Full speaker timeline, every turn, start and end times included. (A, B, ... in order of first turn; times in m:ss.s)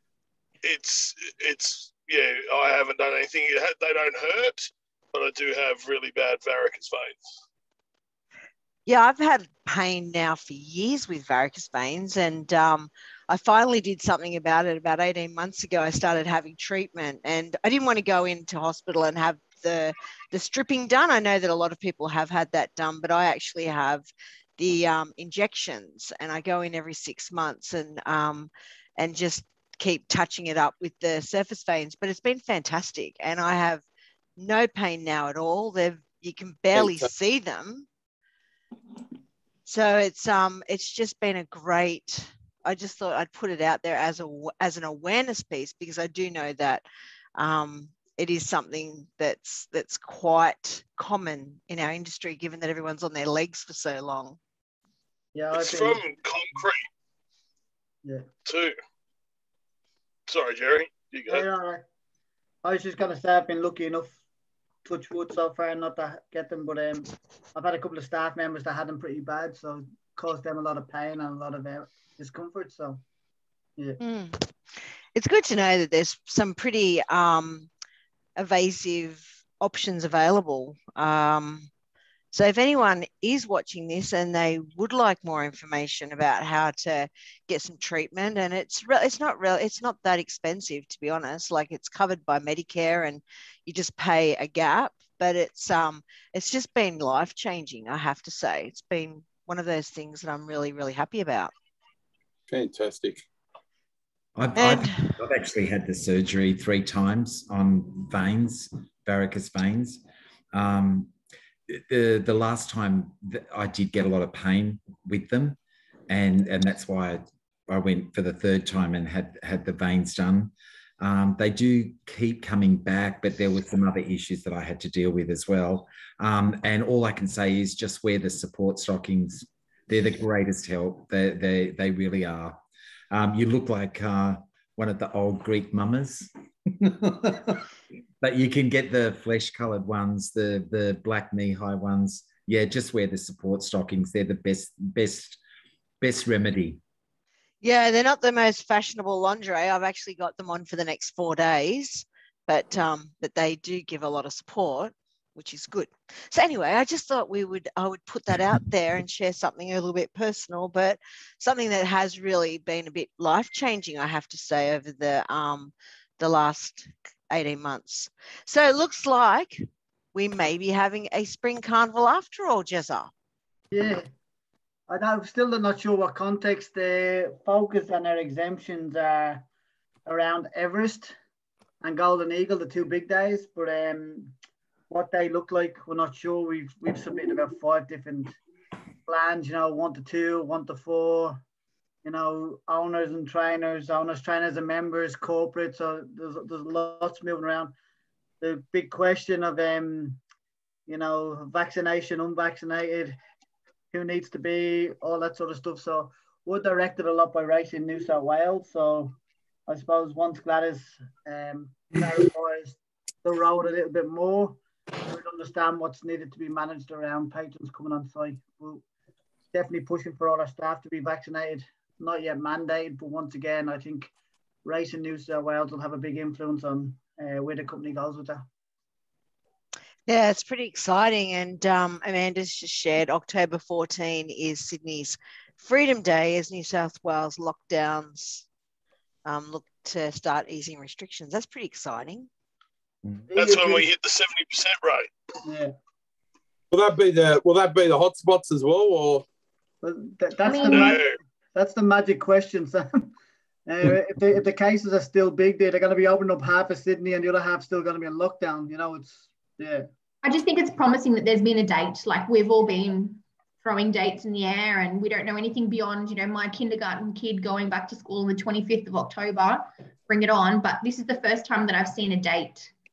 0:00.6-0:07.3 A
0:08.9-0:33.8 B
0:34.4-0:37.9 B
0:36.7-0:37.1 C
0:39.7-0:46.8 B
0:47.4-0:54.4 B
0:55.4-0:56.0 D
0:55.5-0:56.9 A
0:58.5-0:58.8 A
1:00.3-1:01.5 A
1:01.3-1:01.8 D
1:02.6-1:04.2 D
1:04.8-1:13.0 D
1:14.0-1:14.5 B
1:15.2-1:17.7 B
1:18.4-1:21.7 B
1:22.3-1:41.5 B
1:42.5-1:43.2 C
1:44.4-1:50.0 E
1:44.6-1:45.1 B
1:50.5-1:51.1 E
1:51.7-1:55.6 E
1:56.1-2:12.6 E
2:13.1-2:16.3 E
2:16.8-2:17.6 E
2:18.2-2:25.4 E
2:26.0-2:26.8 E
2:27.6-2:49.6 B
2:50.2-2:53.1 B
2:53.7-2:54.1 D
2:54.9-2:59.4 D
3:00.1-3:01.1 D
3:01.8-3:04.4 D
3:04.9-3:08.4 D
3:09.1-3:11.4 D
3:12.0-3:17.8 D
3:18.4-3:20.2 D
3:20.9-3:23.2 D
3:23.9-3:29.2 D
3:29.7-3:38.8 D
3:39.5-3:44.1 D
3:44.6-3:48.4 D
3:50.1-3:58.4 B
3:59.3-4:02.3 B
4:03.3-4:03.9 D
4:03.3-4:05.1 A
4:05.4-4:05.7 D
4:06.7-4:09.3 C
4:09.8-4:13.1 D
4:10.4-4:11.0 F
4:10.7-4:11.2 A
4:13.7-4:19.9 D
4:20.2-4:32.7 F